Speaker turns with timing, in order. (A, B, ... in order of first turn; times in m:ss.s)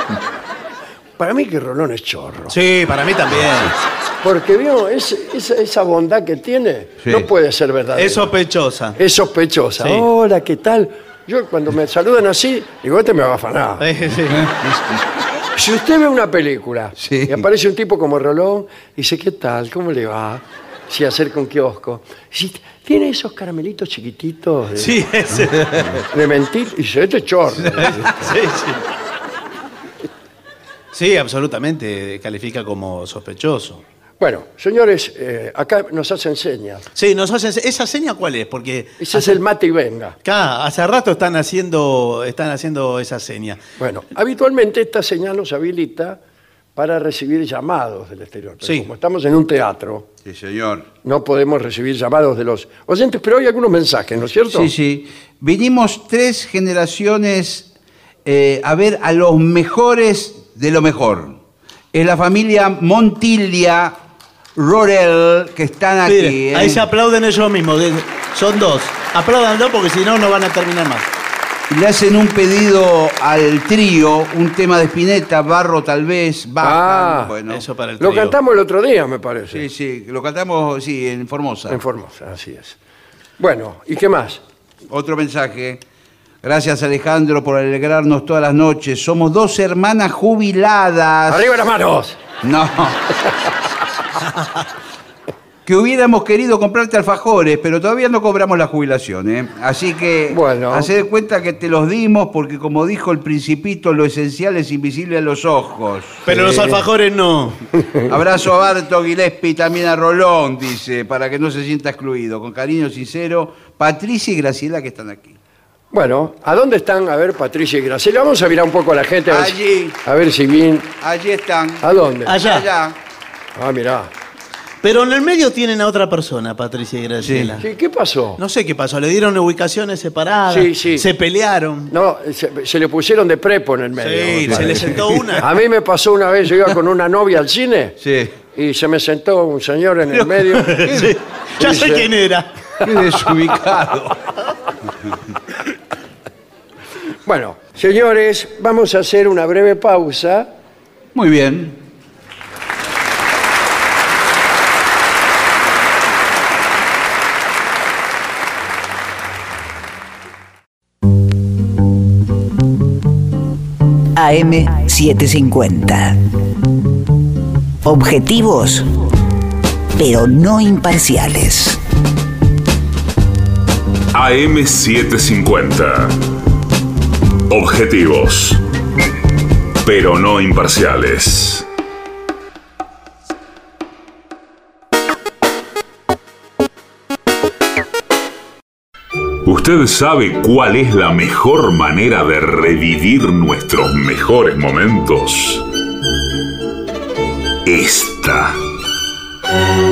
0:01.2-0:02.5 A
0:02.5-0:03.7 B
0:04.2-0:08.3 A
0:07.9-0:09.0 B
0:09.0-0:13.9 A
0:09.8-0:10.1 B
0:13.8-0:14.5 B
0:14.4-0:15.0 C
0:15.5-0:25.0 A
0:17.0-0:17.4 C
0:24.8-0:26.0 B
0:26.1-0:28.3 A
0:27.8-0:28.8 B
0:30.9-0:33.8 B
0:34.2-0:36.9 A
0:36.9-0:39.4 B
0:39.0-0:40.2 A
0:40.2-0:43.6 B
0:43.8-0:46.2 A
0:46.8-0:50.1 A
0:50.2-0:50.9 C
0:51.0-0:54.7 A
0:54.5-0:57.7 C
0:58.2-1:01.4 C
1:01.9-1:04.0 C
1:04.6-1:06.8 C
1:06.0-1:11.1 B
1:11.7-1:17.6 C
1:16.6-1:17.3 A
1:17.5-1:18.4 B
1:18.0-1:19.6 A
1:19.5-1:21.8 C
1:21.7-1:22.8 A
1:23.4-1:24.4 A
1:24.9-1:25.8 C
1:26.4-1:31.5 C
1:31.3-1:32.2 A
1:32.4-1:33.1 C
1:35.6-1:46.2 C
1:40.3-1:40.9 A
1:46.2-1:47.6 B
1:46.3-1:46.8 A
1:48.1-1:55.4 C
1:55.9-2:00.9 A
1:59.3-2:00.0 C
2:01.0-2:01.8 C
2:01.8-2:02.4 A
2:02.2-2:02.7 B
2:02.4-2:03.0 C
2:03.5-2:04.1 A
2:04.8-2:07.6 B
2:07.2-2:07.6 C
2:07.6-2:08.4 A
2:08.4-2:11.9 B
2:10.5-2:11.1 A
2:11.9-2:20.9 A
2:14.0-2:15.5 B
2:14.4-2:15.2 C
2:18.0-2:18.3 C
2:20.4-2:22.9 B
2:20.7-2:21.1 C
2:21.6-2:22.1 A
2:22.8-2:24.2 C
2:27.2-2:30.5 A
2:31.1-2:31.8 C
2:44.2-2:46.2 D
2:47.8-2:48.9 D
2:50.0-2:51.8 D
2:54.1-2:56.2 E
2:57.5-2:58.6 E
2:59.8-3:01.6 E
3:09.4-3:15.6 E
3:17.6-3:18.6 E